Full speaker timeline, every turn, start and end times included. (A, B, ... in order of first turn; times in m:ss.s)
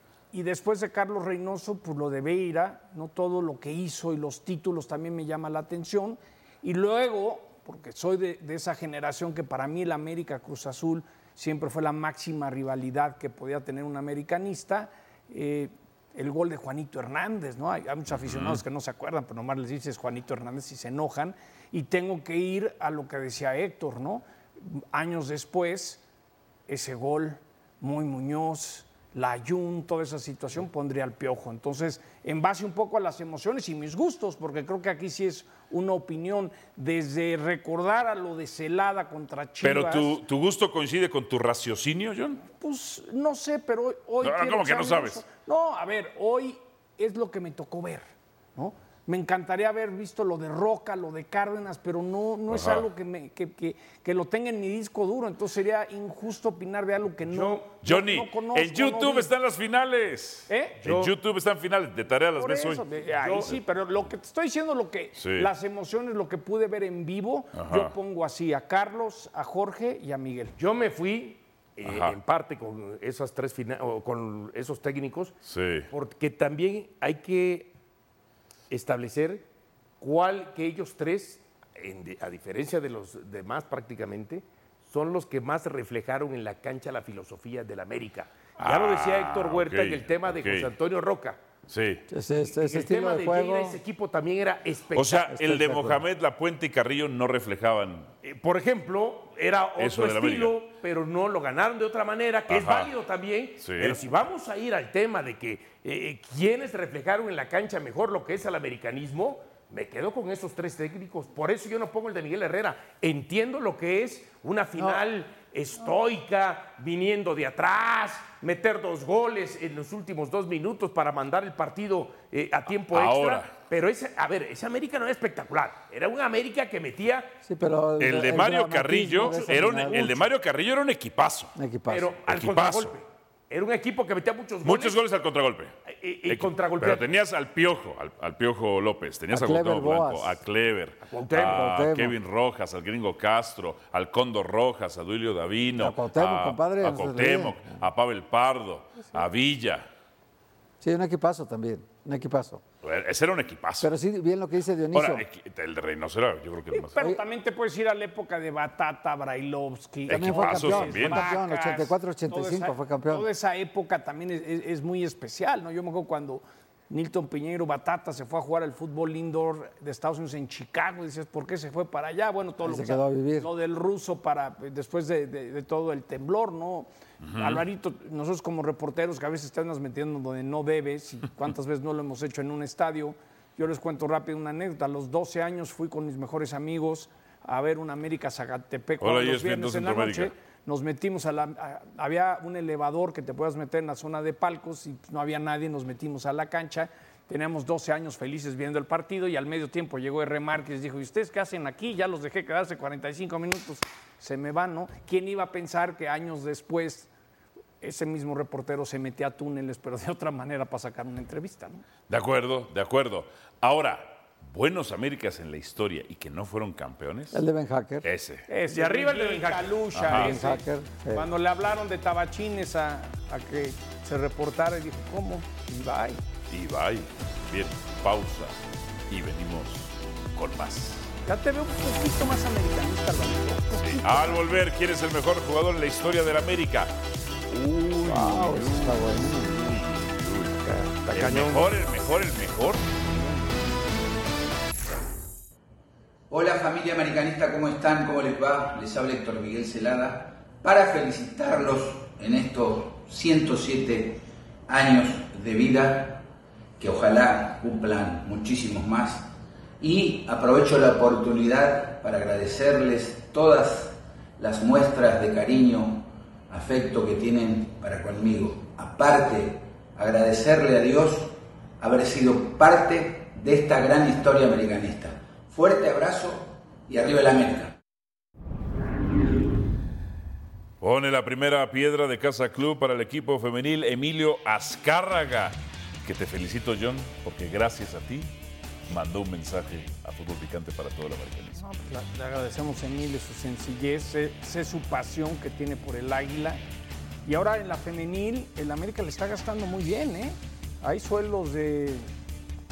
0:00.3-0:26.0 A
0:18.1-0:18.6 B
0:26.7-0:40.2 A
0:39.6-0:42.4 B
0:42.5-0:59.3 A
0:44.2-0:45.2 B
0:52.5-0:52.9 B
0:57.2-0:57.7 C
0:57.8-1:02.8 B
1:00.5-1:00.8 A
1:00.8-1:01.1 C
1:02.4-1:10.5 A
1:03.1-1:03.6 C
1:05.2-1:05.5 B
1:07.5-1:07.9 B
1:10.6-1:15.4 C
1:11.8-1:12.2 B
1:15.4-1:15.9 B
1:15.9-1:17.7 C
1:18.7-1:19.4 C
1:20.0-1:31.4 C
1:28.6-1:30.7 B
1:31.7-1:32.0 B
1:32.1-1:33.8 D
1:32.6-1:35.3 C
1:34.9-1:38.1 B
1:35.3-1:36.0 D
1:38.2-2:07.3 C
1:39.8-1:40.6 B
1:42.5-1:42.9 B
1:43.6-1:44.0 B
2:02.9-2:03.5 B
2:07.4-2:10.3 D
2:08.0-2:11.5 B
2:09.2-2:10.2 C
2:11.5-2:12.1 D
2:11.9-2:15.0 C
2:12.2-2:13.0 B
2:14.6-2:15.7 B
2:15.9-2:17.1 C
2:16.3-2:29.9 B
2:19.3-2:20.4 D
2:21.0-2:21.7 C
2:21.4-2:22.2 D
2:25.8-2:27.6 D
2:30.8-2:32.6 D
2:32.8-2:33.9 B
2:33.8-2:35.2 D
2:34.9-2:37.1 B
2:36.7-3:27.1 A
2:40.1-2:41.3 B
2:40.1-2:43.3 D
2:52.6-2:53.5 D
2:57.2-2:57.6 B
3:09.0-3:10.3 B
3:27.8-3:31.8 A
3:32.1-3:37.4 B
3:37.3-3:38.1 D
3:38.0-3:38.5 B
3:38.5-3:46.2 A
3:38.7-3:40.0 C
3:39.9-3:40.4 B
3:40.1-3:41.3 D
3:46.5-3:48.6 B
3:49.1-3:51.1 B
3:51.2-3:54.4 A
3:53.7-3:56.9 B
3:57.5-4:00.5 B
3:58.0-3:59.5 D
4:00.6-4:01.6 C
4:01.1-4:02.9 B
4:06.3-4:14.2 E
4:14.7-4:16.2 E
4:16.8-4:19.2 E
4:19.8-4:37.7 E
4:40.8-4:48.3 B
4:48.9-4:51.6 B
4:51.6-4:56.6 A
4:57.2-5:02.1 A